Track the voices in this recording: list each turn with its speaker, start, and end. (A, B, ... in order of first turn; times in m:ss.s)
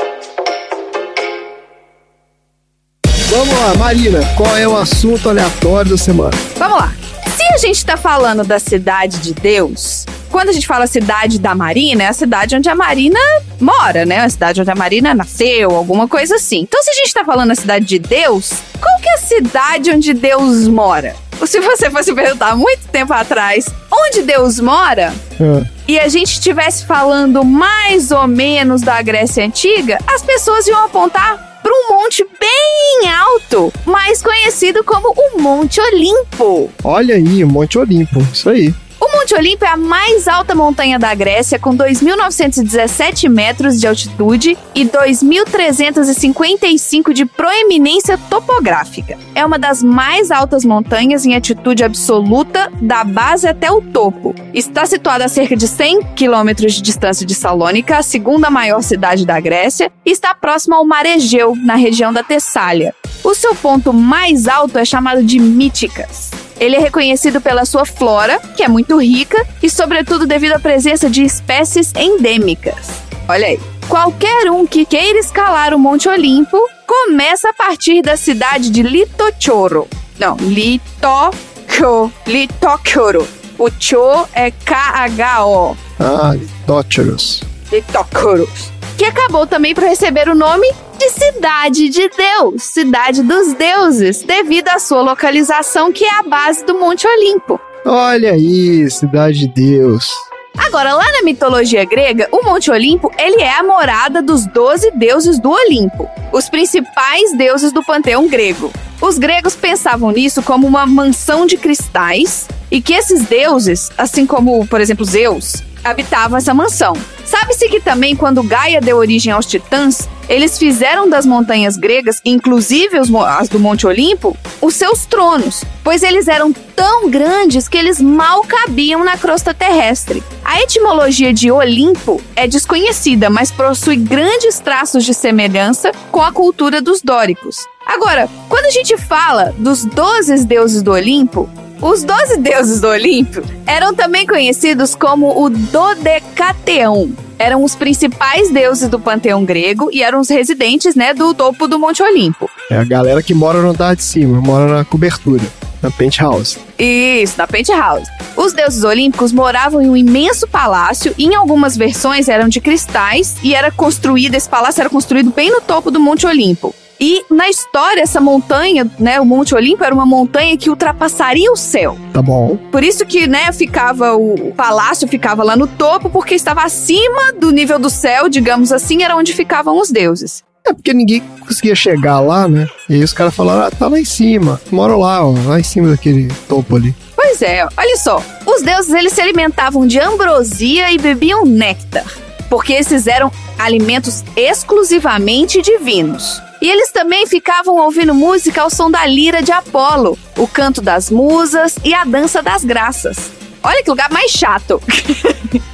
0:03.3-0:06.4 A
0:06.6-0:25.2 B
0:25.4-0:25.7 A
0:25.9-0:36.7 B
0:36.8-0:38.8 A
0:39.0-1:25.8 B
1:26.0-1:27.5 A
1:27.7-1:37.6 B
1:37.8-1:40.2 A
1:40.6-2:32.5 B
2:32.7-2:36.6 A
2:36.8-2:52.0 B
2:52.1-2:52.6 A
2:52.7-3:00.4 B
3:00.6-3:07.0 A
3:07.2-3:25.6 B